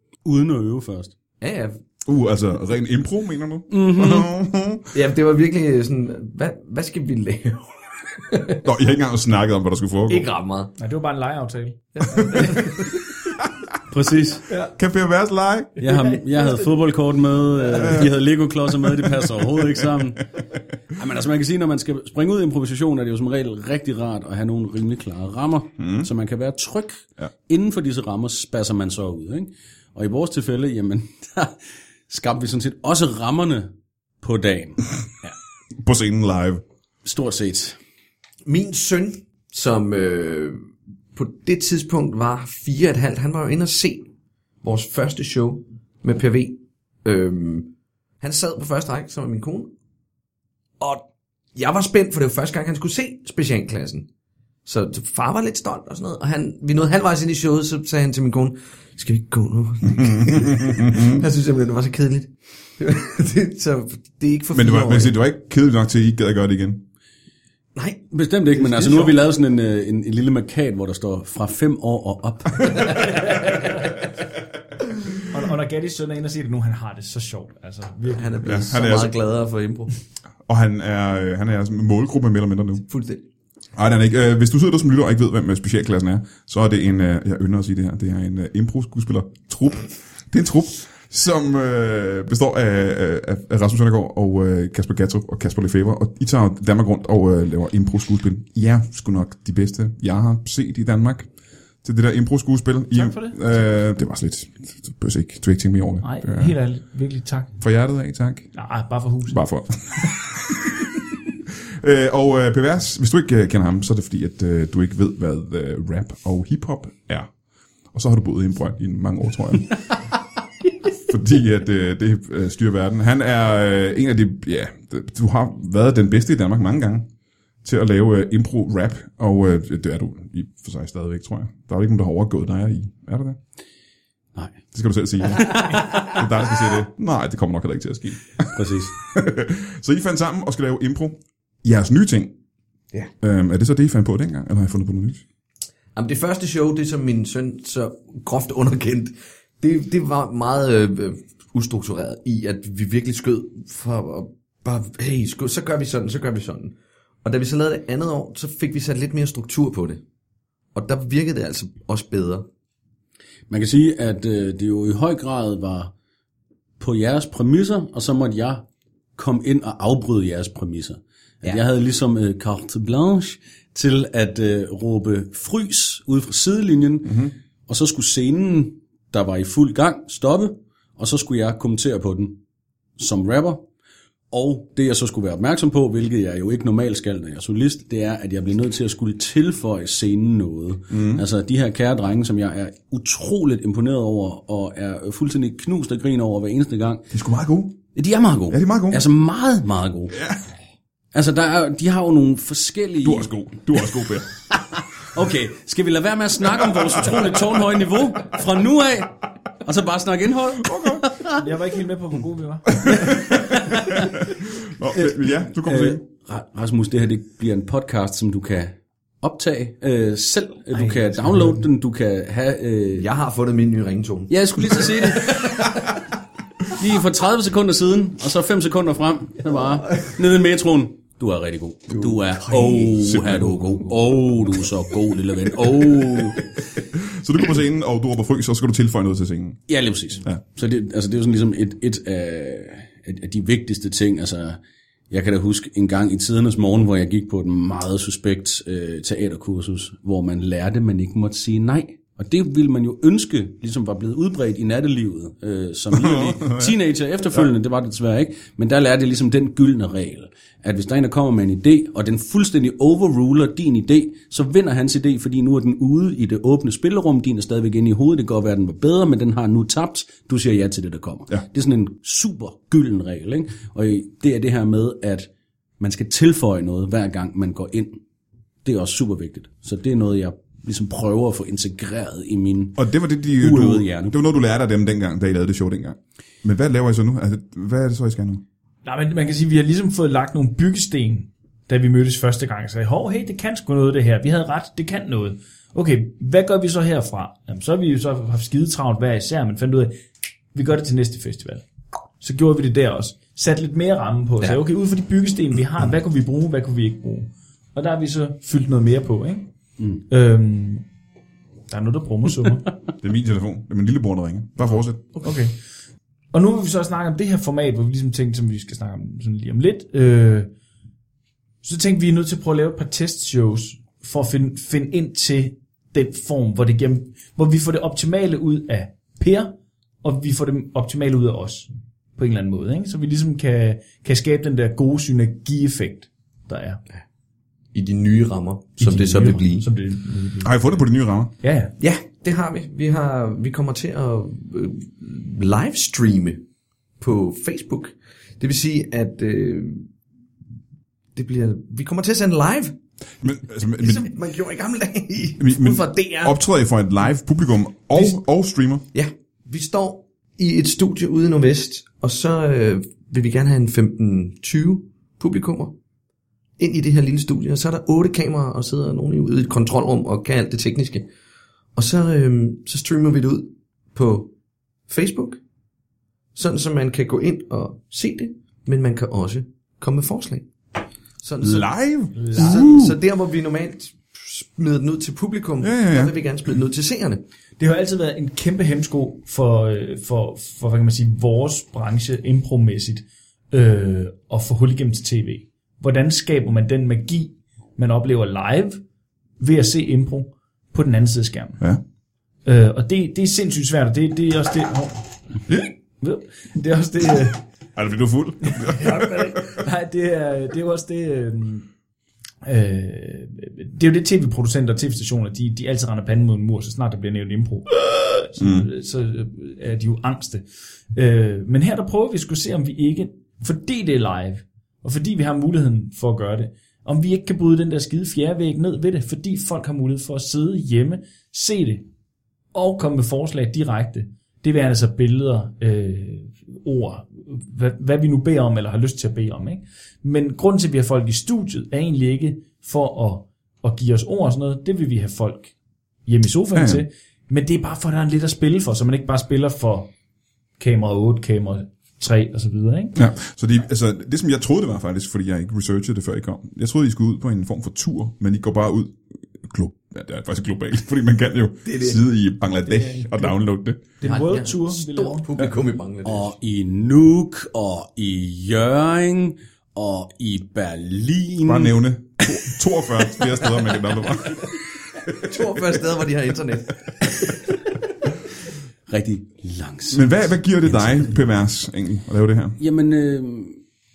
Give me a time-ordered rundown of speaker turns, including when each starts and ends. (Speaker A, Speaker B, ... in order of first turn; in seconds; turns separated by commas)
Speaker A: 0.2-1.1, Speaker B: 1.4-1.8, Speaker C: 2.0-4.9, Speaker A: 3.7-4.3, Speaker B: 4.9-8.6, Speaker C: 8.6-10.3, Speaker B: 10.1-10.7, Speaker D: 10.8-12.7, Speaker B: 11.9-13.0, Speaker A: 13.9-14.4, Speaker C: 14.8-15.7, Speaker A: 15.8-20.3, Speaker D: 15.8-16.6, Speaker A: 20.9-34.8, Speaker C: 25.8-26.1, Speaker C: 35.8-36.6, Speaker A: 37.0-37.8, Speaker B: 38.5-40.6, Speaker B: 41.1-44.0, Speaker B: 44.6-47.7, Speaker B: 48.2-49.7, Speaker B: 51.5-54.1, Speaker B: 54.6-65.1, Speaker C: 60.3-61.2, Speaker C: 64.5-66.8, Speaker B: 67.7-69.2, Speaker A: 68.1-73.2, Speaker B: 72.7-73.4, Speaker D: 75.2-78.5, Speaker B: 78.1-79.9, Speaker C: 78.4-79.1, Speaker C: 80.5-82.8, Speaker B: 82.9-83.2, Speaker C: 83.7-101.3, Speaker C: 101.8-106.5, Speaker D: 102.9-103.8, Speaker D: 106.0-107.5, Speaker C: 107.6-108.5, Speaker D: 108.5-110.1, Speaker C: 109.3-110.2, Speaker C: 111.8-117.3, Speaker C: 117.9-119.8, Speaker C: 121.0-127.1, Speaker C: 127.6-133.4, Speaker C: 134.7-142.3, Speaker A: 135.3-136.2, Speaker A: 138.5-138.9, Speaker C: 143.2-145.2, Speaker B: 145.9-160.0, Speaker B: 160.7-162.4, Speaker A: 163.5-165.9, Speaker A: 166.8-168.6, Speaker A: 169.2-182.3, Speaker C: 177.1-177.3, Speaker A: 183.0-183.6, Speaker A: 184.3-197.1, Speaker C: 190.9-191.2, Speaker C: 197.1-197.8, Speaker A: 197.9-200.1, Speaker C: 198.5-199.0, Speaker C: 200.1-200.4, Speaker A: 201.1-203.3, Speaker C: 203.0-204.3, Speaker A: 204.5-211.4, Speaker C: 210.7-211.0, Speaker D: 211.3-213.2, Speaker C: 212.8-216.0, Speaker A: 212.8-214.1, Speaker A: 214.9-223.1, Speaker D: 220.7-221.7, Speaker B: 222.9-225.8, Speaker A: 224.3-225.9, Speaker A: 226.7-236.5, Speaker B: 231.9-233.2, Speaker C: 233.0-233.6, Speaker C: 236.9-239.6, Speaker A: 239.7-244.6, Speaker A: 245.1-275.3, Speaker C: 256.0-256.7, Speaker A: 275.8-278.0, Speaker A: 278.6-282.8, Speaker C: 282.8-288.4, Speaker A: 283.4-284.1, Speaker D: 288.8-299.9, Speaker D: 300.5-301.6, Speaker D: 302.2-309.5, Speaker D: 310.1-310.8, Speaker D: 311.7-312.7, Speaker C: 313.0-315.0, Speaker D: 315.2-315.6, Speaker D: 316.3-320.5, Speaker D: 321.6-336.8, Speaker B: 337.7-339.7, Speaker D: 338.8-340.6, Speaker C: 340.4-341.3, Speaker D: 341.4-341.7, Speaker B: 341.8-346.4, Speaker B: 347.0-349.9, Speaker B: 351.1-352.7, Speaker C: 353.2-354.1, Speaker B: 353.6-356.4, Speaker C: 355.4-358.8, Speaker B: 358.9-365.7, Speaker B: 366.6-371.1, Speaker B: 371.8-374.3, Speaker B: 374.9-375.4, Speaker B: 376.4-380.5, Speaker B: 381.2-387.2, Speaker C: 381.4-382.9, Speaker D: 382.1-382.7, Speaker C: 385.6-386.1, Speaker D: 387.6-398.8, Speaker D: 399.4-401.6, Speaker D: 402.4-407.4, Speaker C: 407.8-409.4, Speaker D: 408.5-411.7, Speaker D: 412.4-431.8, Speaker C: 418.4-418.7, Speaker D: 432.5-445.5, Speaker D: 446.1-449.9, Speaker C: 446.5-446.8, Speaker D: 450.6-452.9, Speaker C: 452.9-463.8, Speaker B: 461.6-462.0, Speaker D: 462.7-463.3, Speaker D: 464.0-465.3, Speaker B: 464.0-466.3, Speaker A: 466.0-471.8, Speaker C: 471.4-474.5, Speaker B: 475.1-477.4, Speaker A: 478.9-481.1, Speaker C: 479.9-482.6, Speaker A: 482.6-483.6